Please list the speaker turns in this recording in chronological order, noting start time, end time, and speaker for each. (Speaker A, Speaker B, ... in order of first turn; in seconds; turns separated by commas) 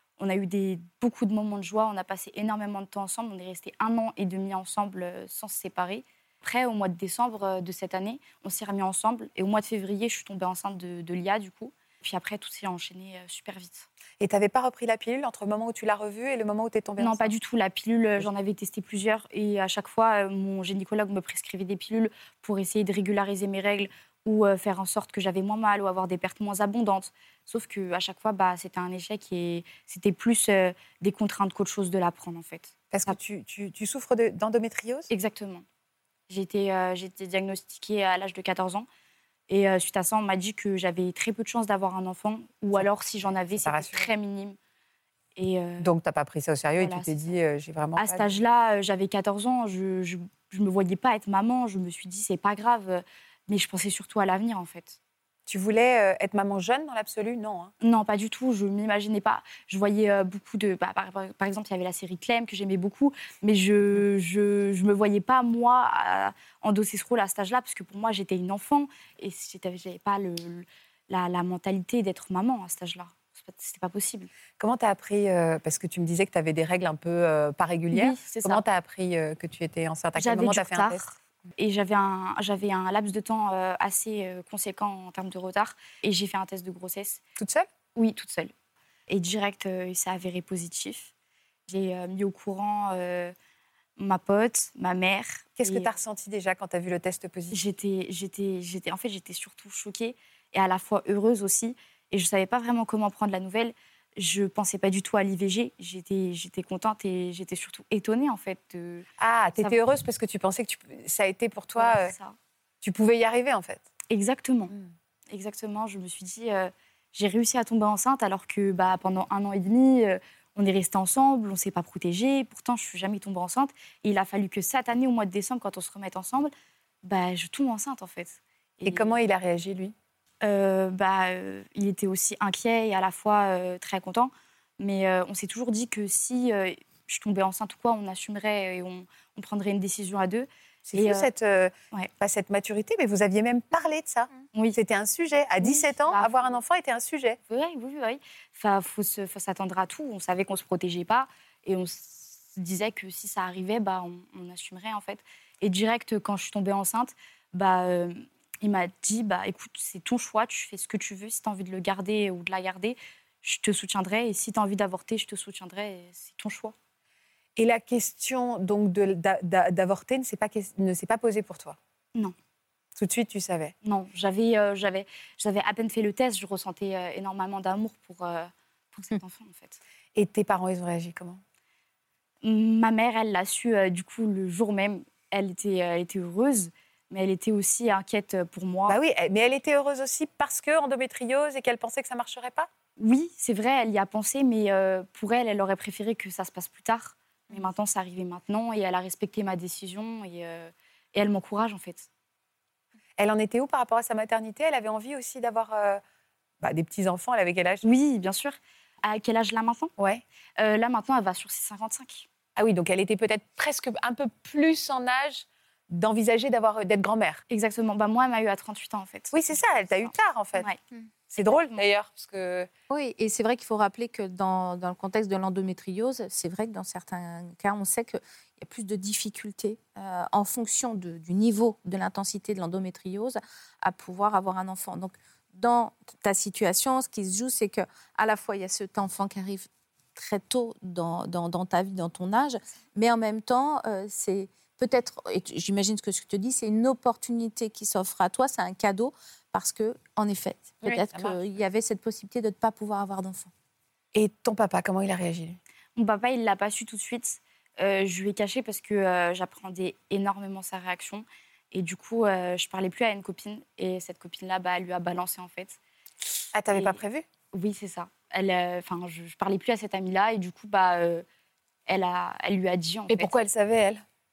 Speaker A: 0.2-13.9, Speaker B: 14.2-17.3, Speaker A: 17.0-33.2, Speaker B: 32.9-35.1, Speaker A: 35.1-35.6, Speaker A: 36.3-38.9, Speaker A: 39.5-44.6, Speaker B: 43.5-44.1, Speaker A: 45.4-45.9, Speaker B: 45.8-48.4, Speaker A: 46.8-47.3, Speaker A: 48.0-55.0, Speaker B: 55.5-57.7, Speaker A: 57.8-74.3, Speaker B: 74.6-81.0, Speaker A: 77.9-78.6, Speaker A: 80.2-87.2, Speaker B: 87.4-87.7, Speaker A: 87.9-88.5, Speaker A: 89.1-91.1, Speaker A: 91.7-93.3, Speaker A: 94.0-95.9, Speaker B: 95.6-97.6, Speaker A: 97.5-109.0, Speaker B: 109.2-112.1, Speaker A: 111.8-112.3, Speaker B: 112.8-113.8, Speaker A: 114.1-114.7, Speaker A: 115.3-126.5, Speaker A: 127.0-129.2, Speaker B: 128.8-129.9, Speaker A: 130.4-141.3, Speaker B: 140.9-147.4, Speaker A: 145.6-146.6, Speaker A: 147.5-166.7, Speaker B: 167.6-171.8, Speaker B: 172.9-173.7, Speaker A: 173.8-179.8, Speaker B: 180.1-181.4, Speaker A: 182.4-189.0, Speaker B: 188.9-192.7, Speaker A: 193.0-202.1, Speaker B: 203.2-206.0, Speaker B: 206.6-207.8, Speaker A: 207.8-209.9, Speaker A: 210.6-212.2, Speaker B: 212.6-217.4, Speaker A: 217.5-221.8, Speaker B: 219.3-220.7, Speaker B: 221.4-222.7, Speaker C: 222.9-253.5, Speaker B: 250.8-251.4, Speaker B: 254.1-255.6, Speaker A: 255.9-265.8, Speaker B: 266.5-267.2, Speaker A: 266.7-267.0, Speaker A: 267.5-271.2, Speaker A: 271.9-273.3, Speaker B: 273.1-274.0